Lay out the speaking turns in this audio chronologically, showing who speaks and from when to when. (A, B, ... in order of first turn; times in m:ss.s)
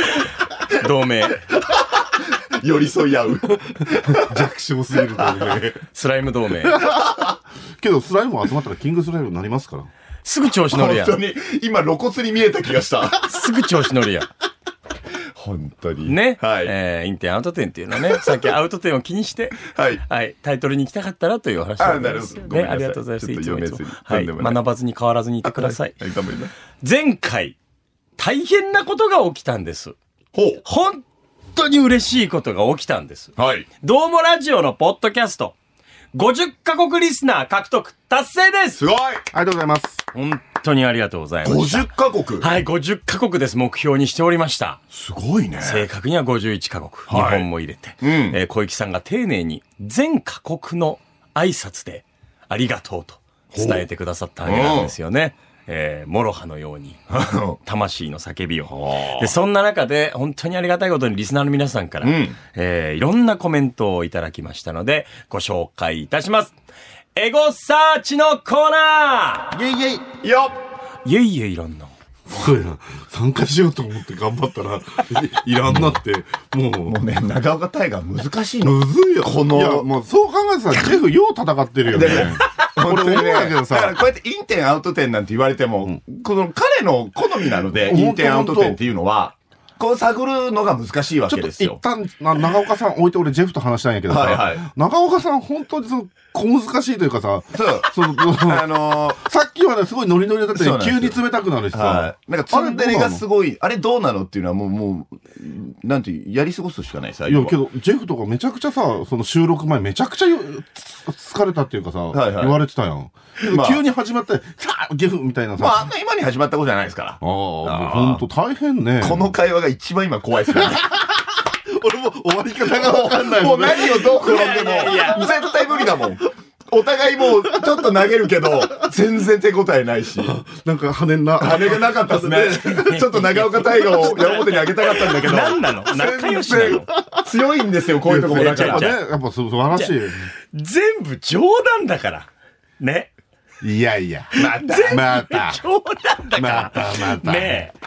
0:00.2-0:01.4 A
0:01.6-0:04.4 B
0:03.9-0:05.8 C
0:05.2-0:05.6 B
0:05.9-0:06.9 A
0:06.7-0:07.1 C
0:06.8-0:07.4 B
0:07.8-0:09.9 C
0:10.2-0:11.2 A
0:10.7-0:13.3 B
0:13.2-0:14.3 A
0:15.4-0:16.7 B
0:16.0-0:26.0 A
0:19.6-0:20.0 B
0:21.8-0:24.6 B
0:25.4-0:26.5 B
0:26.8-0:27.6 A
0:28.2-0:30.0 A
0:30.3-0:30.6 B
0:30.6-0:35.6 A
0:33.4-0:33.7 B
0:36.1-0:38.8 A
0:38.8-0:39.2 B
0:39.3-0:40.0 C
0:40.1-0:44.8 A
0:41.4-0:42.5 B
0:44.9-0:45.9 B
0:45.6-0:57.1 A
0:47.1-0:47.5 B
0:48.0-0:48.4 B
0:53.5-0:53.8 B
0:54.4-0:54.9 B
0:57.1-0:57.6 B
0:57.6-1:06.6 A
0:58.8-0:59.3 B
1:02.0-1:02.4 B
1:07.2-1:09.5 A
1:09.5-1:10.1 C
1:10.2-1:10.6 B
1:11.0-1:11.9 A
1:12.3-1:17.0 C
1:16.9-1:19.9 B
1:18.6-1:24.0 C
1:21.9-1:31.8 B
1:27.7-1:28.8 C
1:31.3-1:43.2 C
1:34.1-1:34.7 B
1:37.5-1:39.2 B
1:40.5-1:47.6 B
1:47.3-1:55.9 C
1:52.1-1:52.6 B
1:53.4-1:53.8 B
1:55.6-1:58.2 B
1:57.2-1:59.3 C
1:59.0-2:00.9 B
2:00.6-2:06.0 C
2:02.7-2:10.4 B
2:04.1-2:05.2 A
2:10.2-2:12.9 C
2:11.4-2:19.0 B
2:12.8-2:16.9 A
2:17.0-2:17.3 C
2:18.0-2:20.3 C
2:18.2-2:19.0 A
2:20.5-2:22.3 A
2:22.8-2:23.1 A
2:23.6-2:25.6 C
2:24.4-2:27.7 A
2:24.4-2:25.1 B
2:26.3-2:27.6 C